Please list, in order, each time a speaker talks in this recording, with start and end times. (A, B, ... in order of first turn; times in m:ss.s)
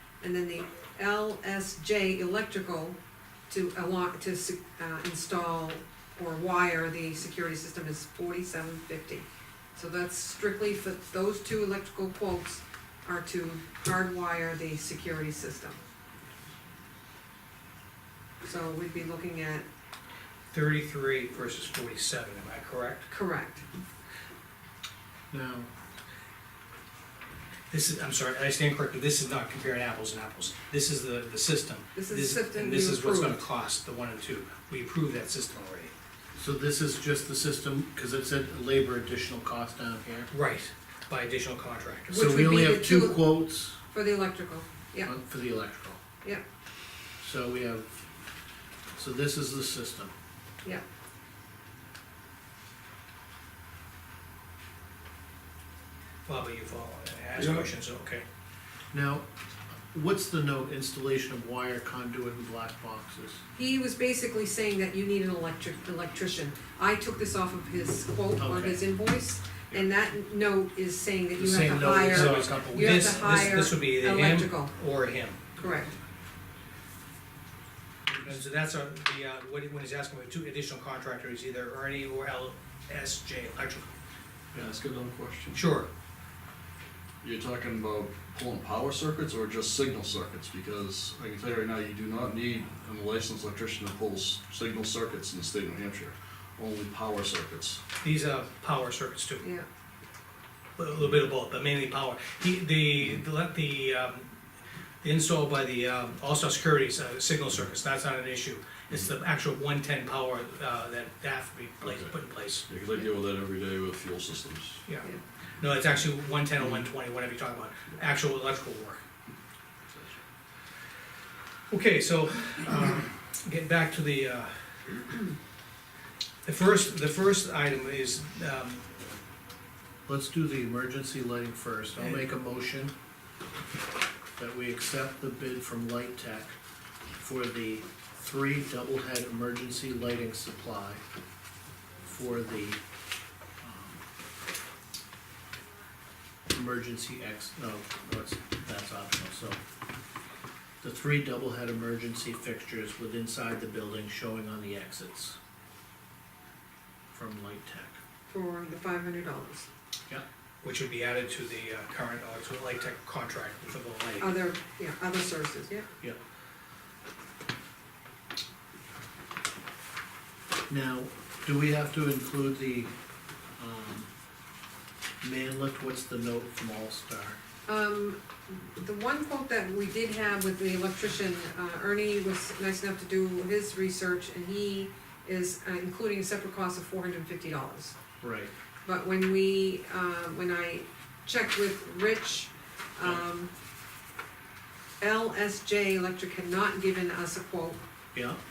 0:00.2-0:03.0 A
0:03.5-0:15.8 A
0:18.4-0:19.7 A
0:20.5-0:23.1 B
0:23.1-0:23.7 A
0:25.3-0:25.7 C
0:27.7-0:35.9 B
0:32.0-0:33.4 A
0:36.4-0:40.3 C
0:40.3-0:42.3 B
0:42.1-0:43.4 A
0:42.1-0:43.8 C
0:43.9-0:45.1 A
0:45.0-0:46.0 C
0:47.2-0:48.0 C
0:49.0-0:50.1 C
0:56.3-0:58.2 B
0:57.4-0:57.7 D
0:58.9-1:03.4 C
1:03.6-1:14.7 A
1:08.4-1:08.8 C
1:11.4-1:13.7 C
1:12.1-1:15.5 B
1:15.6-1:15.9 A
1:18.1-1:18.4 C
1:18.2-1:23.9 B
1:24.6-1:25.6 D
1:25.5-1:25.9 B
1:27.2-1:37.8 D
1:38.0-1:39.4 B
1:39.4-1:39.7 A
1:40.8-1:44.3 B
1:45.0-1:52.7 B
1:51.8-1:52.2 D
1:52.7-1:54.8 D
1:54.8-1:59.0 B
1:59.9-2:00.2 D
2:01.7-2:04.6 B
2:06.4-2:08.8 B
2:10.1-2:12.9 C
2:14.4-2:16.6 C
2:17.2-2:21.0 C
2:22.0-2:22.8 C
2:23.6-2:24.0 C
2:26.5-2:29.6 C
2:30.8-2:35.4 C
2:37.1-2:38.0 C
2:38.3-2:39.7 A
2:40.6-2:44.4 B
2:44.2-2:45.9 A
2:50.7-2:52.9 C
2:53.6-2:54.1 C
2:55.2-2:57.4 C
2:57.7-3:08.0 A
3:08.2-3:08.5 C
3:08.8-3:13.5 A
3:15.0-3:17.8 A
3:18.1-3:18.4 C